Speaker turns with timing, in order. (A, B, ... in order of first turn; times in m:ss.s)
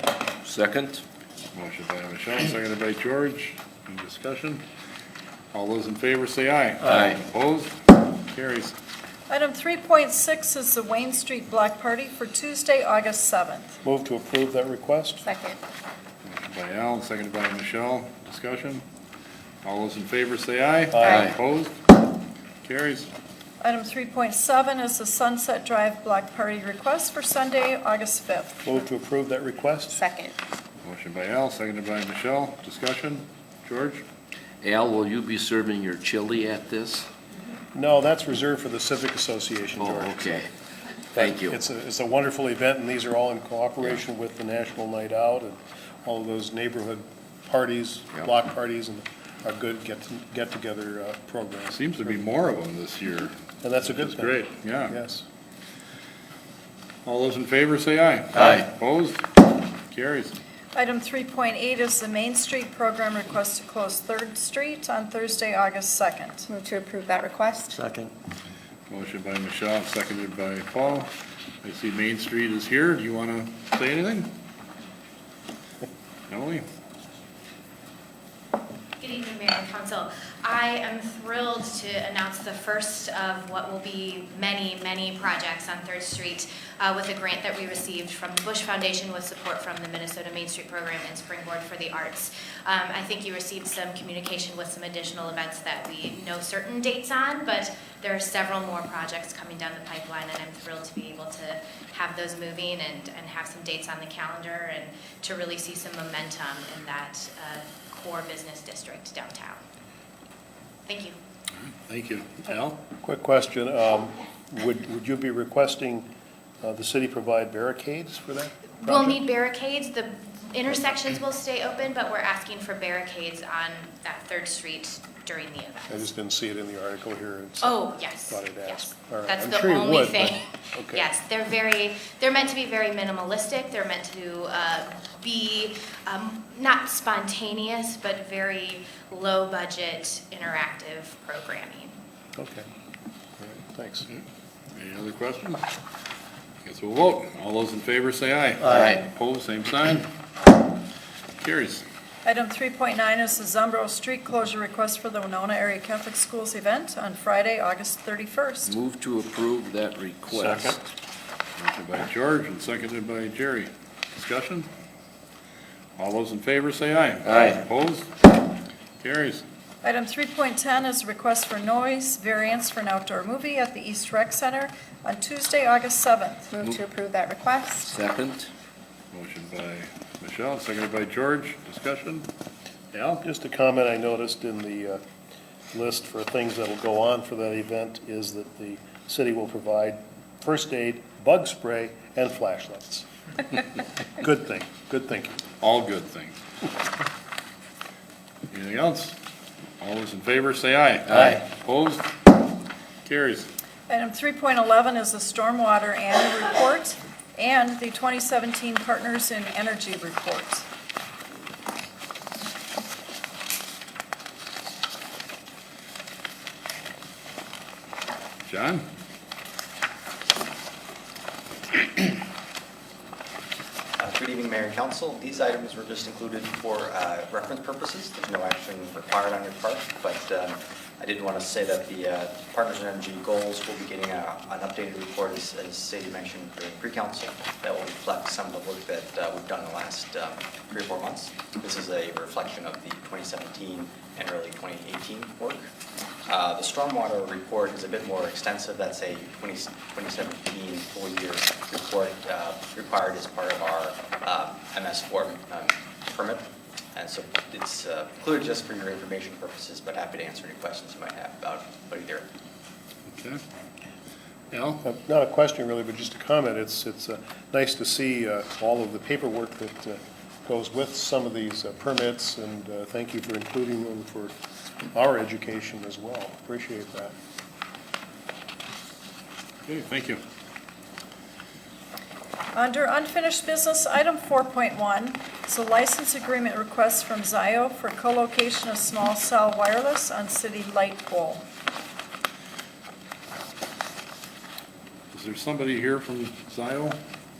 0:00.4-0:01.0 A
0:01.5-0:04.6 B
0:05.5-0:07.7 B
0:08.3-0:08.7 B
0:09.3-0:13.8 C
0:13.8-0:15.3 D
0:15.2-0:15.6 E
0:16.2-0:18.8 B
0:19.6-0:21.8 B
0:20.9-0:21.3 D
0:21.0-0:21.3 A
0:22.6-0:23.1 B
0:23.6-0:28.6 C
0:28.6-0:30.0 D
0:29.9-0:30.3 E
0:30.8-0:34.0 B
0:34.6-0:37.1 A
0:37.7-0:40.3 D
0:39.8-0:40.5 A
0:41.1-0:51.8 D
0:41.2-0:41.6 A
0:51.7-0:54.9 B
0:53.6-0:55.2 D
0:57.0-0:59.2 B
0:59.9-1:00.3 B
1:00.7-1:06.5 C
1:06.5-1:07.9 E
1:08.9-1:11.1 B
1:11.6-1:14.3 B
1:16.3-1:16.6 B
1:19.0-1:49.6 F
1:50.9-1:51.2 F
1:51.6-1:52.8 B
1:53.0-1:56.1 D
1:56.6-1:59.2 D
1:58.8-2:06.1 F
2:05.9-2:11.1 D
2:07.6-2:21.9 F
2:22.3-2:22.6 D
2:23.4-2:24.1 D
2:24.7-2:25.6 B
2:26.6-2:30.1 B
2:28.7-2:29.0 A
2:31.4-2:31.8 B
2:32.2-2:38.7 C
2:38.7-2:40.9 A
2:40.3-2:40.8 B
2:41.8-2:44.7 B
2:46.0-2:48.1 B
2:47.2-2:47.6 A
2:49.0-2:49.4 B
2:49.8-2:56.5 C
2:56.5-2:58.0 E
2:57.8-2:58.5 A
2:59.1-3:02.3 B
3:02.9-3:03.2 B
3:03.2-3:05.0 D
3:05.7-3:13.6 D
3:14.2-3:15.4 D
3:15.6-3:16.4 B
3:18.5-3:19.2 B
3:19.8-3:22.1 B
3:21.1-3:21.4 A
3:23.0-3:23.5 B
3:23.9-3:30.7 C
3:38.4-3:38.8 B
3:44.0-4:05.7 G
4:06.3-4:22.3 G
4:23.1-4:23.4 B
4:24.5-4:24.8 B
4:24.8-4:34.3 D
4:34.9-4:37.1 D
4:39.6-4:40.2 B
4:42.5-4:51.4 C
4:55.1-4:57.0 B